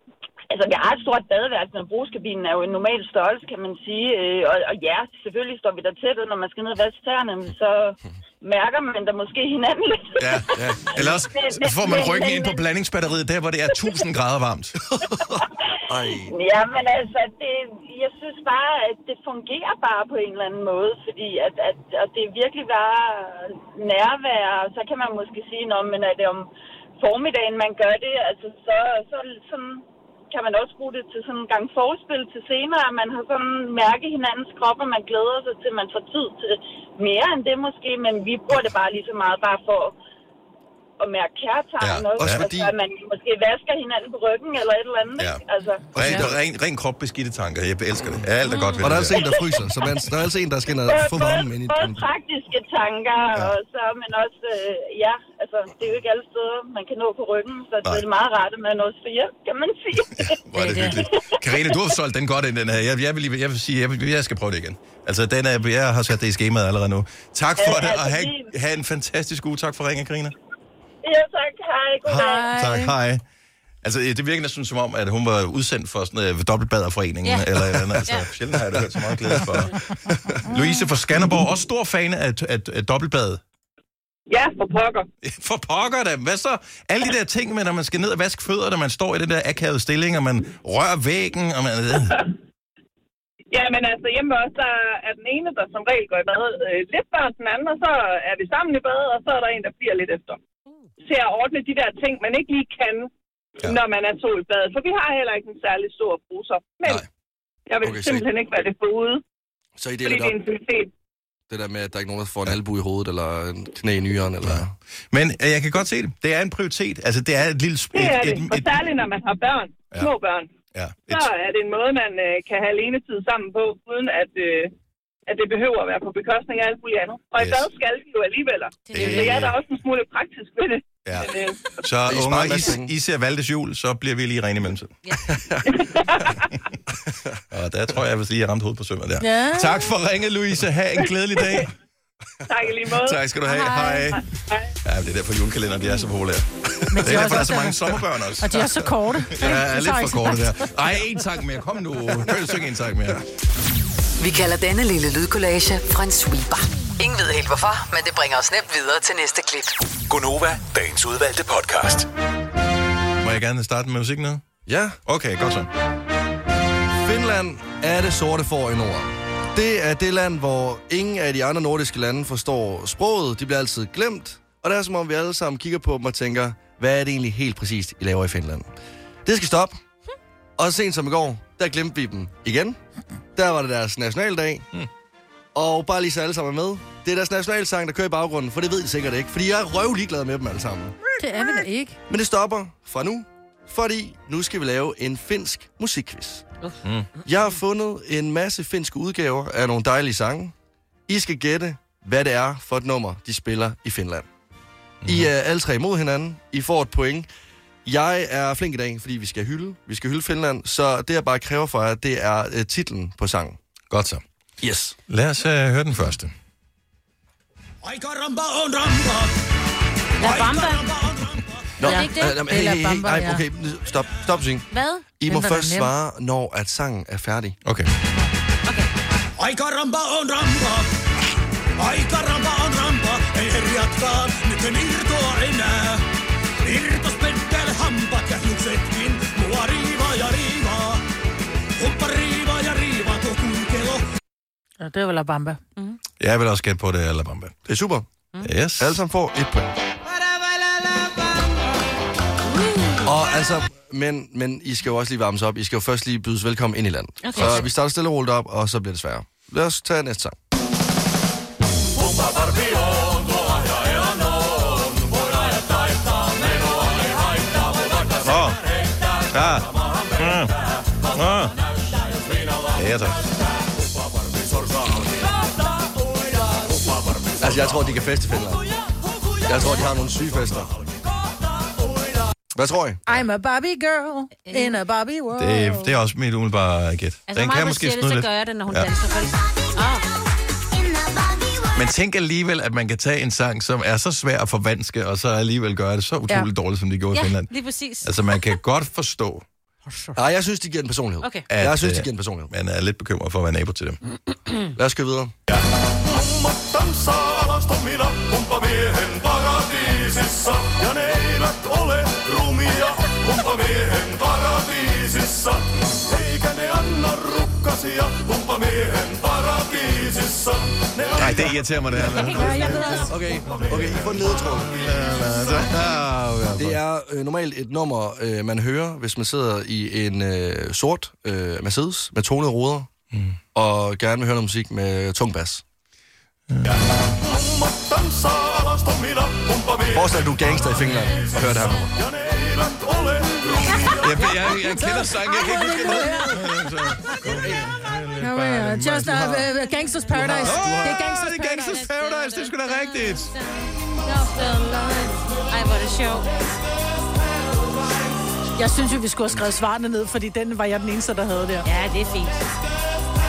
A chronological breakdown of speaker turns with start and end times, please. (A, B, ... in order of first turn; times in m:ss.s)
0:00.5-0:12.6 A
0:10.2-0:14.8 B
0:10.5-0:11.2 C
0:14.9-0:16.3 C
0:16.3-0:40.0 A
0:41.0-0:45.9 A
0:41.8-0:42.5 B
0:42.2-0:42.7 C
0:45.9-0:46.4 C
0:45.9-0:49.3 B
0:48.4-0:48.9 D
0:48.8-0:52.0 C
0:49.3-0:49.6 A
0:50.8-1:00.4 A
1:00.2-1:10.3 B
1:00.6-1:00.9 D
1:01.2-1:01.7 A
1:07.6-1:08.5 A
1:11.0-1:12.5 A
1:12.1-1:13.2 B
1:12.1-1:12.9 E
1:13.8-1:19.7 B
1:17.2-1:17.5 D
1:18.0-1:18.3 D
1:20.1-1:20.4 C
1:20.5-1:23.4 B
1:24.3-1:25.1 F
1:25.2-1:32.2 B
1:33.5-1:40.4 F
1:41.0-1:43.1 F
1:43.6-1:47.0 F
1:47.7-1:49.2 F
1:47.8-1:48.3 C
1:49.8-1:50.4 C
1:50.0-1:50.9 F
1:51.5-1:54.7 C
1:54.4-1:58.8 B
1:57.9-2:00.5 F
2:00.7-2:01.3 B
2:01.1-2:04.7 F
2:05.3-2:11.6 F
2:07.4-2:07.7 B
2:08.8-2:09.5 D
2:08.9-2:09.6 B
2:11.0-2:15.0 B
2:12.0-2:12.9 C
2:15.3-2:15.6 C
2:15.6-2:16.5 F
2:17.5-2:21.7 B
2:19.2-2:19.9 E
2:22.4-2:23.2 F
2:22.9-2:24.2 B
2:23.4-2:24.1 E
2:24.8-2:33.2 B
2:26.9-2:30.7 E
2:34.2-2:39.8 G
2:40.1-2:42.1 H
2:43.2-2:44.4 B
2:44.6-2:45.0 C
2:45.0-2:45.7 B
2:47.0-2:58.7 C
2:59.2-2:59.8 C
3:00.6-3:02.8 C
3:03.3-3:04.6 C
3:05.5-3:10.9 C
3:11.2-3:12.0 E
3:12.1-3:16.4 C
3:16.8-3:17.1 B
3:17.2-3:20.5 C
3:21.1-3:24.3 C
3:25.0-3:25.3 B
3:25.0-3:27.3 C
3:27.8-3:33.6 C
3:33.9-3:34.2 B
3:34.6-3:35.0 C
3:35.1-3:36.3 B
3:37.8-3:39.3 I
3:40.2-3:40.9 D
3:40.2-3:41.7 I
3:41.8-3:47.6 C
3:41.8-3:42.4 D
3:41.9-3:43.4 E
3:44.7-3:45.1 D
3:45.3-3:45.9 E
3:47.6-3:47.9 B
3:49.4-3:50.9 I
3:51.8-3:56.0 I
3:56.6-4:01.0 I
4:01.8-4:04.0 I
4:04.8-4:05.6 E
4:06.2-4:07.6 B
4:07.6-4:08.1 C
4:08.4-4:09.0 B
4:08.8-4:09.7 C
4:12.5-4:13.1 D
4:13.0-4:20.3 C
4:17.2-4:17.7 D
4:22.6-4:24.2 I
4:24.9-4:28.3 I
4:28.2-4:28.6 B
4:29.3-4:30.6 B
4:31.1-4:31.6 B
4:32.3-4:32.6 I
4:32.7-4:33.3 B
4:35.8-4:37.4 I
4:37.4-4:38.6 C
4:39.4-4:40.8 C
4:39.6-4:39.8 D
4:42.5-4:43.0 C
4:43.1-4:45.9 E
4:44.4-4:44.8 D
4:45.4-4:48.9 B
4:47.3-4:50.0 D
4:51.7-4:57.5 B
4:57.1-4:58.4 D
4:58.0-4:59.4 B
4:59.9-5:00.2 D
5:00.2-5:02.5 C
5:01.2-5:01.5 D
5:01.5-5:04.0 B
5:04.8-5:05.3 C
5:09.5-5:10.1 C
5:20.0-5:20.4 C
5:20.9-5:21.5 C
5:21.1-5:23.0 B
5:22.0-5:23.2 D
5:22.4-5:23.1 E
5:22.9-5:24.9 C
5:23.5-5:26.8 B
5:26.5-5:32.9 C
5:33.5-5:35.6 C
5:36.5-5:37.2 B
5:39.9-5:42.0 C
5:43.4-5:43.8 C
5:43.4-5:44.3 D
5:44.0-5:49.5 B
5:44.4-5:46.5 E
5:47.2-5:47.7 C
5:48.2-5:51.7 E
5:49.9-5:50.7 D
5:50.2-5:53.3 B
5:51.4-5:56.3 D
5:58.6-6:01.7 E
6:01.6-6:02.5 D